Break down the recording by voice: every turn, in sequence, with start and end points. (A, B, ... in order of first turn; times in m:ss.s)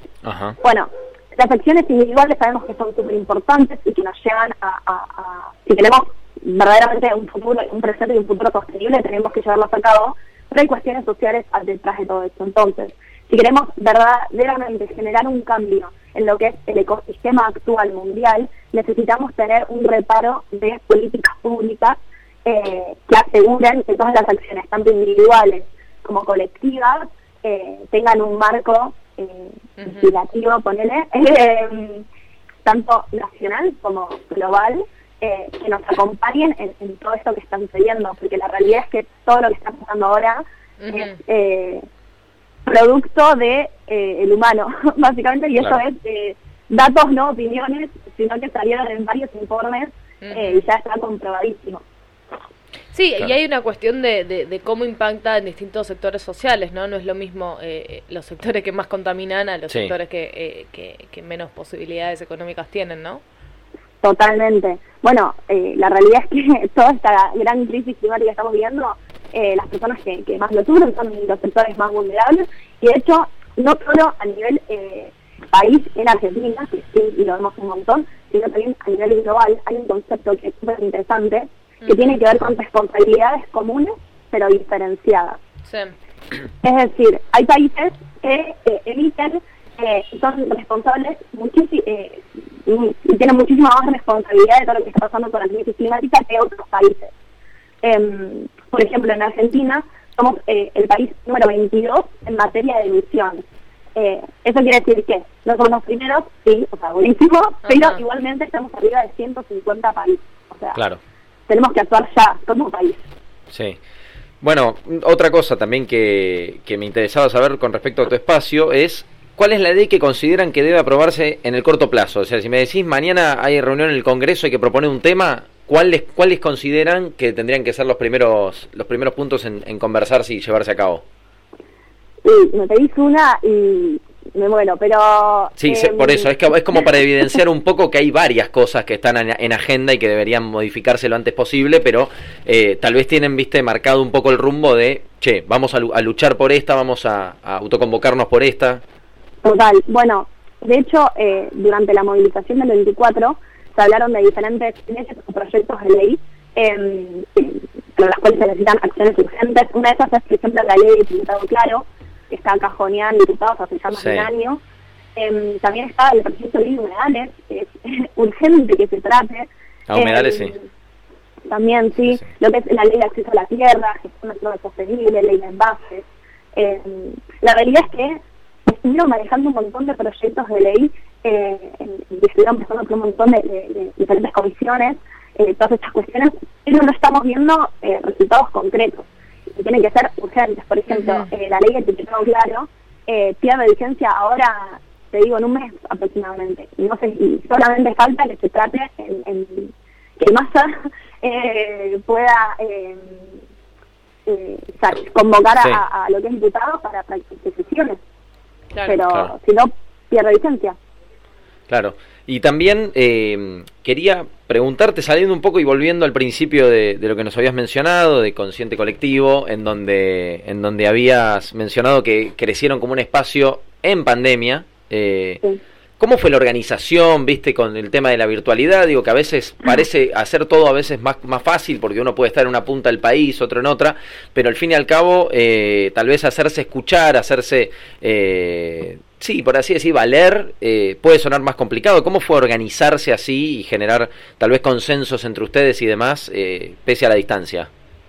0:00.2-0:00.6 A
0:00.6-0:32.0 B
0:29.8-0:30.1 C
0:32.6-0:41.8 B
0:40.8-0:41.2 C
0:42.6-0:51.8 B
0:50.2-0:50.6 C
0:52.9-1:03.2 C
1:04.0-1:25.4 B
1:21.8-1:22.2 C
1:25.6-1:25.9 C
1:26.6-1:37.1 B
1:37.8-1:43.4 B
1:44.0-1:50.8 B
1:47.6-1:48.0 C
1:50.7-1:51.0 A
1:51.5-1:53.1 B
1:53.5-1:53.8 A
1:54.4-2:11.0 A
2:12.2-2:16.3 B
2:15.6-2:28.8 A
2:29.4-2:44.6 B
2:43.9-2:44.3 A
2:45.2-2:50.7 B
2:49.9-2:50.5 A
2:51.5-3:23.4 B
3:10.9-3:11.3 C
3:24.2-3:28.0 B
3:28.7-3:29.0 C
3:28.8-3:30.8 B
3:31.7-3:45.4 A
3:46.0-4:07.7 A